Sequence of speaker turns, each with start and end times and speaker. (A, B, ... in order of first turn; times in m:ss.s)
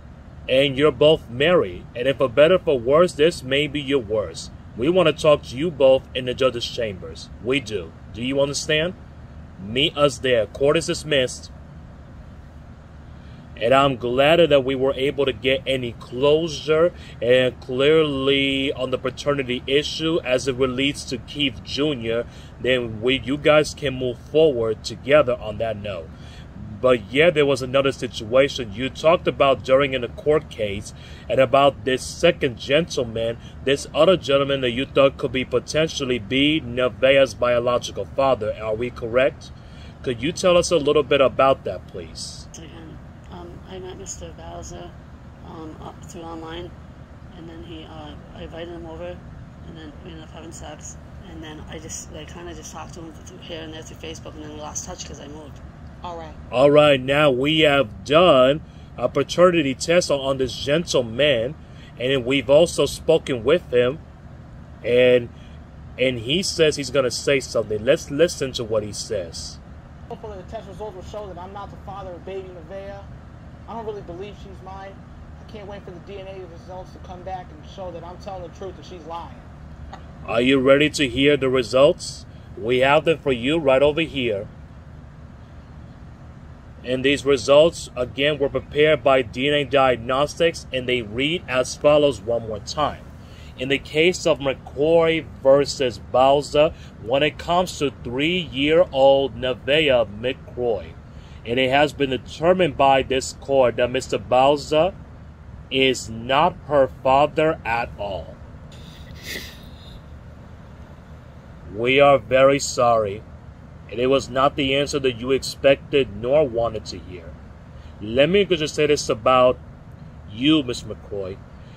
0:00.5-0:09.0 A
0:09.6-0:11.5 A
0:13.6-0:42.5 A
0:42.5-0:46.7 B
0:47.3-0:55.6 B
0:56.0-0:56.4 C
0:56.5-1:04.0 A
1:04.8-1:05.3 A
1:06.0-1:09.6 A
1:10.1-1:13.1 C
1:13.7-1:19.5 C
1:20.2-1:24.5 A
1:26.8-1:45.0 A
1:45.7-1:48.4 A
1:51.6-1:53.2 A
1:53.9-1:57.4 A
1:58.0-1:59.6 A
2:00.2-2:01.4 A